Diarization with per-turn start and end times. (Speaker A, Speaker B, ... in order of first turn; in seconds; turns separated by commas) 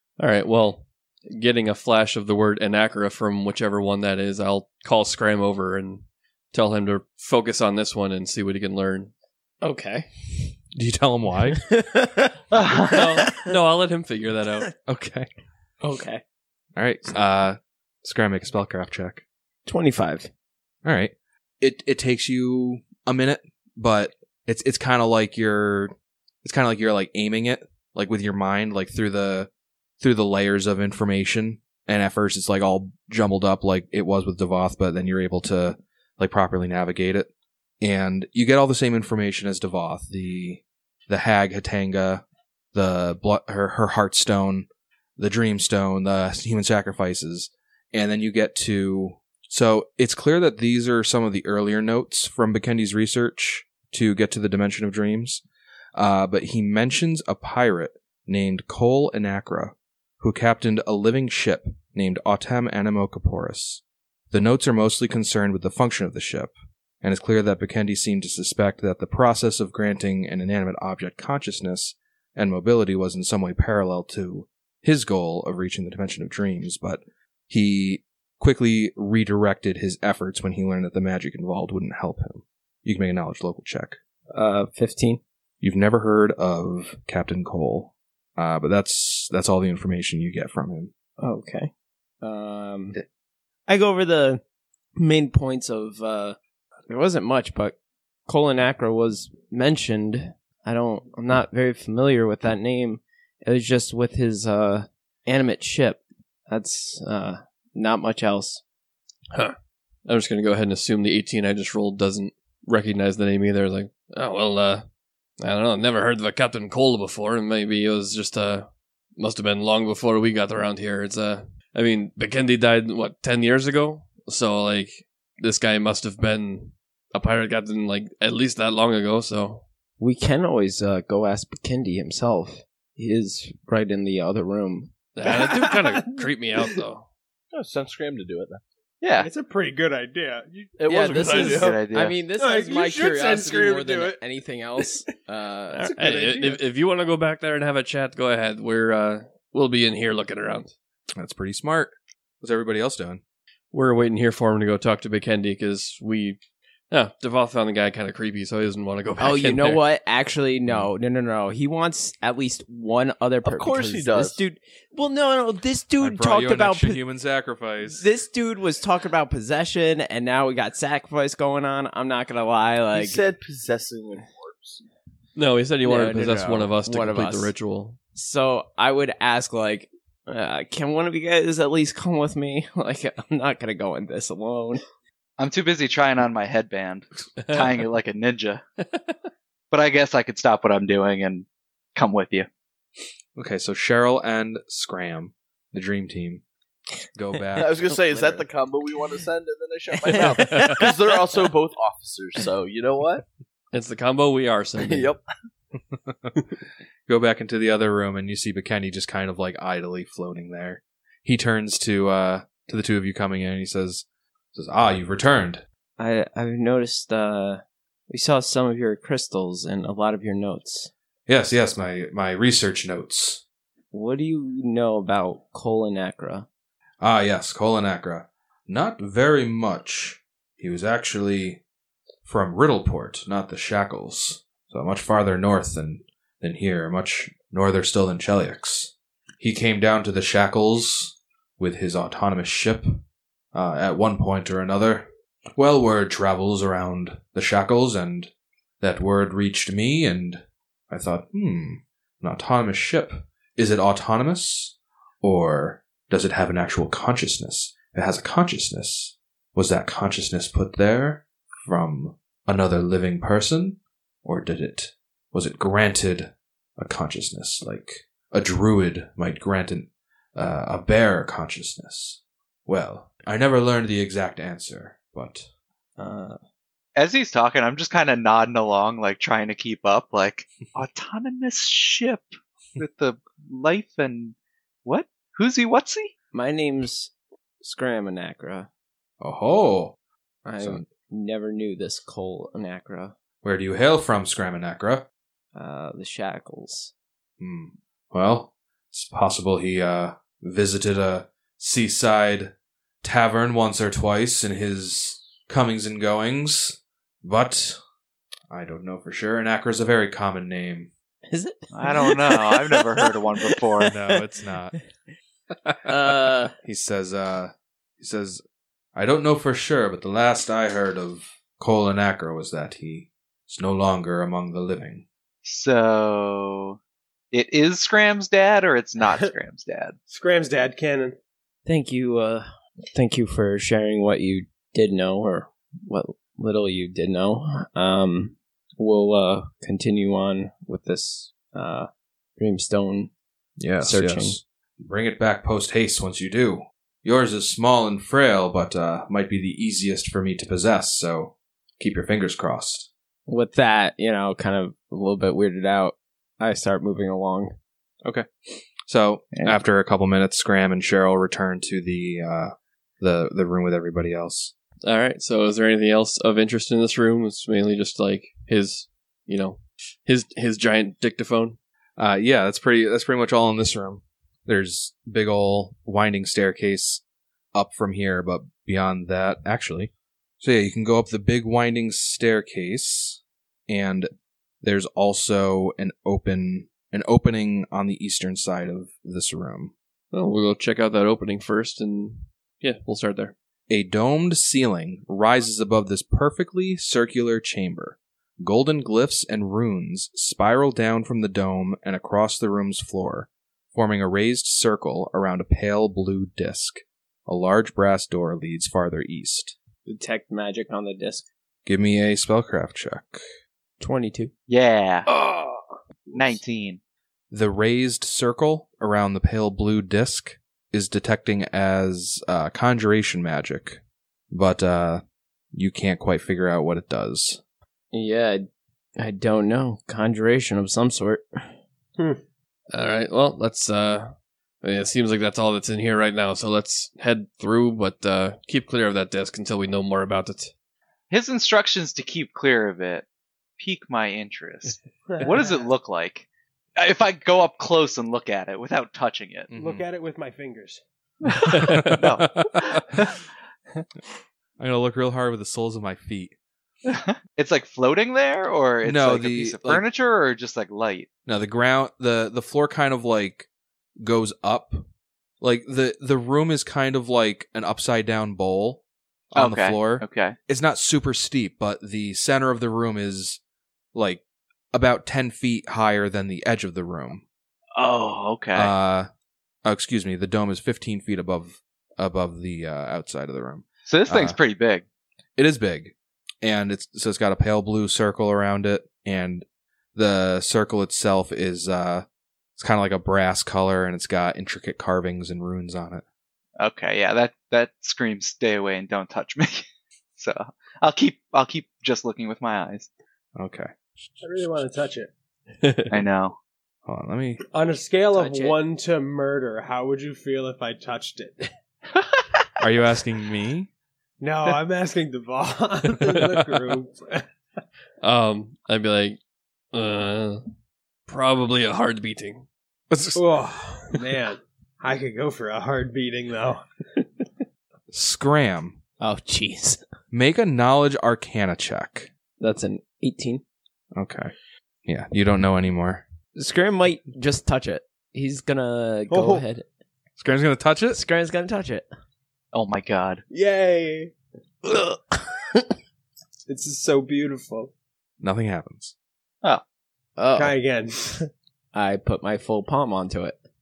Speaker A: 0.2-9.1, Speaker B: 9.6-10.2, Speaker C: 10.7-11.6, Speaker B: 11.7-12.3, Speaker A: 12.8-14.7, Speaker B: 12.9-13.4, Speaker C: 14.9-15.3, Speaker B: 15.8-16.2, Speaker C: 16.8-19.2, Speaker B: 19.6-20.3, Speaker C: 20.8-25.9, Speaker C: 26.4-37.3, Speaker C: 37.8-44.7, Speaker C: 45.2-55.4, Speaker C: 55.9-84.0, Speaker B: 84.3-85.2, Speaker C: 85.6-90.9, Speaker B: 91.2-91.7, Speaker B: 92.2-93.0, Speaker B: 93.7-94.4, Speaker B: 95.0-96.4, Speaker B: 96.9-97.8, Speaker B: 98.3-108.6, Speaker A: 110.0-114.8, Speaker A: 115.4-129.6, Speaker B: 130.0-134.9, Speaker A: 135.2-137.1, Speaker D: 135.3-136.2, Speaker E: 137.5-138.6, Speaker F: 139.0-139.3, Speaker D: 139.2-141.5, Speaker E: 140.8-141.8, Speaker B: 140.9-145.9, Speaker F: 141.4-142.2, Speaker D: 142.4-144.2, Speaker D: 145.8-146.6, Speaker A: 145.8-150.7, Speaker C: 151.2-153.2, Speaker A: 153.7-159.8, Speaker B: 159.2-167.0, Speaker E: 163.4-164.4, Speaker C: 166.0-168.0, Speaker B: 167.9-173.2, Speaker E: 172.9-174.8, Speaker A: 175.3-178.0, Speaker B: 175.8-177.5, Speaker B: 178.1-184.8, Speaker F: 185.4-188.6, Speaker A: 187.4-187.7, Speaker A: 188.8-189.2, Speaker F: 189.7-192.5, Speaker C: 193.3-196.4, Speaker C: 197.1-198.0, Speaker E: 197.6-203.2, Speaker B: 198.1-198.4, Speaker B: 200.1-200.9, Speaker A: 203.7-205.1, Speaker E: 204.8-205.2, Speaker C: 205.9-206.3, Speaker C: 207.1-215.6, Speaker B: 216.0-220.9, Speaker C: 221.3-223.4, Speaker B: 223.9-226.5, Speaker C: 227.0-231.6, Speaker C: 232.2-243.0, Speaker C: 243.5-275.5, Speaker B: 276.0-276.4, Speaker F: 276.9-286.1, Speaker B: 286.3-288.7, Speaker C: 289.2-289.9, Speaker B: 290.4-293.1, Speaker C: 290.6-290.9, Speaker C: 293.4-295.1, Speaker B: 295.5-296.9, Speaker C: 297.4-307.8, Speaker C: 308.5-310.9, Speaker B: 311.3-314.2, Speaker F: 311.7-313.9, Speaker C: 313.9-314.7, Speaker B: 315.8-316.5, Speaker C: 316.6-318.4, Speaker C: 318.9-325.0, Speaker F: 325.4-326.8, Speaker F: 327.3-330.0, Speaker D: 329.0-329.3, Speaker D: 330.1-331.1, Speaker B: 331.6-343.1, Speaker C: 343.6-352.9, Speaker B: 343.8-344.4, Speaker B: 353.3-357.5, Speaker C: 358.0-364.5, Speaker F: 359.3-359.6, Speaker A: 364.8-371.6, Speaker C: 372.0-377.0, Speaker C: 377.5-384.1, Speaker C: 384.6-389.7, Speaker A: 390.1-393.3, Speaker C: 393.7-409.6, Speaker B: 409.8-411.3, Speaker C: 411.6-413.2, Speaker B: 413.8-414.3, Speaker F: 414.5-415.1, Speaker B: 415.2-415.6, Speaker F: 416.1-416.8, Speaker C: 417.3-425.0, Speaker C: 425.5-427.4, Speaker B: 427.9-428.5, Speaker B: 429.0-431.5, Speaker A: 432.7-440.5, Speaker F: 441.1-443.1, Speaker F: 443.6-446.2, Speaker D: 445.1-445.6, Speaker F: 446.8-449.5, Speaker C: 449.5-449.9, Speaker D: 449.5-450.8, Speaker F: 451.3-453.1, Speaker A: 451.5-452.0, Speaker C: 451.6-452.8, Speaker C: 454.6-456.3, Speaker F: 456.8-461.1, Speaker C: 458.8-459.8, Speaker C: 461.2-463.5, Speaker C: 464.0-464.8, Speaker C: 465.4-473.4, Speaker F: 469.3-470.4, Speaker C: 473.9-477.2, Speaker F: 477.7-478.7, Speaker C: 478.5-479.1, Speaker C: 479.6-484.4, Speaker F: 483.9-484.8, Speaker C: 485.4-492.1, Speaker C: 492.6-496.0, Speaker F: 496.6-499.6, Speaker F: 500.2-502.9, Speaker C: 503.4-504.8, Speaker D: 504.2-505.1, Speaker A: 505.6-506.0, Speaker F: 505.9-506.4, Speaker C: 506.9-507.4, Speaker D: 507.5-511.5, Speaker B: 508.1-508.6, Speaker C: 512.6-513.7, Speaker D: 514.2-517.2, Speaker A: 516.0-516.6, Speaker A: 518.0-519.2, Speaker A: 519.7-520.4, Speaker A: 521.1-522.5, Speaker C: 522.9-523.2, Speaker D: 523.1-526.6, Speaker C: 527.9-528.8, Speaker B: 529.0-529.8, Speaker C: 530.1-532.1, Speaker B: 532.4-533.4, Speaker C: 533.9-534.3, Speaker C: 534.9-536.0, Speaker B: 536.4-539.6, Speaker D: 539.1-539.4, Speaker C: 540.2-541.0, Speaker B: 540.9-541.9, Speaker F: 542.5-543.2, Speaker D: 543.3-544.1, Speaker D: 546.5-547.7, Speaker C: 548.2-548.9, Speaker B: 550.2-550.6, Speaker D: 550.3-551.3, Speaker B: 551.7-553.4